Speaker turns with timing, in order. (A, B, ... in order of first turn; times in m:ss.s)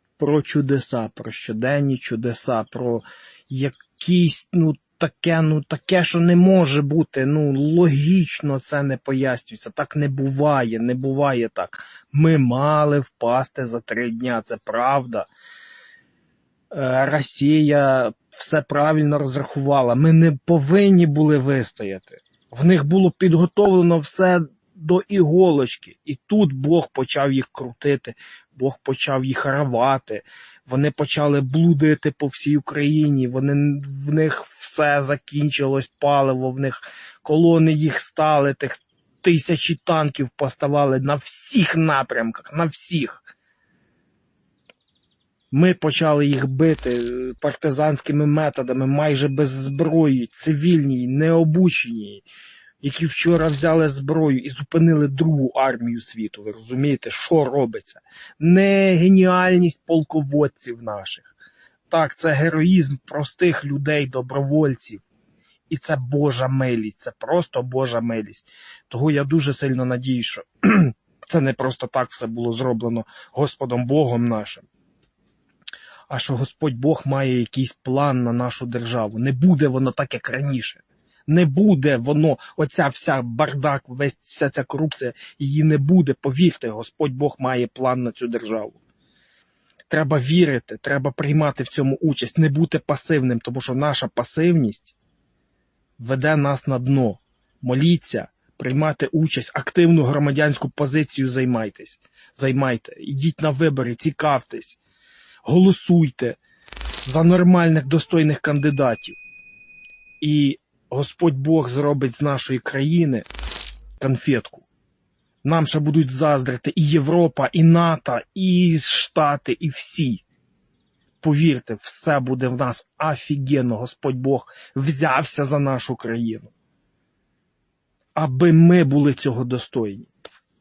0:00.2-0:15.3 A
0:16.7-0:43.2 A
0:45.5-0:52.2 A
0:52.8-1:01.3 A
1:01.9-1:05.0 A
1:05.7-1:14.7 A
1:16.1-1:28.8 A
1:29.9-1:34.9 A
1:36.0-1:44.8 A
1:45.4-1:46.4 A
1:47.0-1:49.2 A
1:50.2-1:53.3 A
1:54.0-1:54.7 A
1:55.4-2:00.2 A
2:01.2-2:06.5 A
2:08.2-2:10.1 A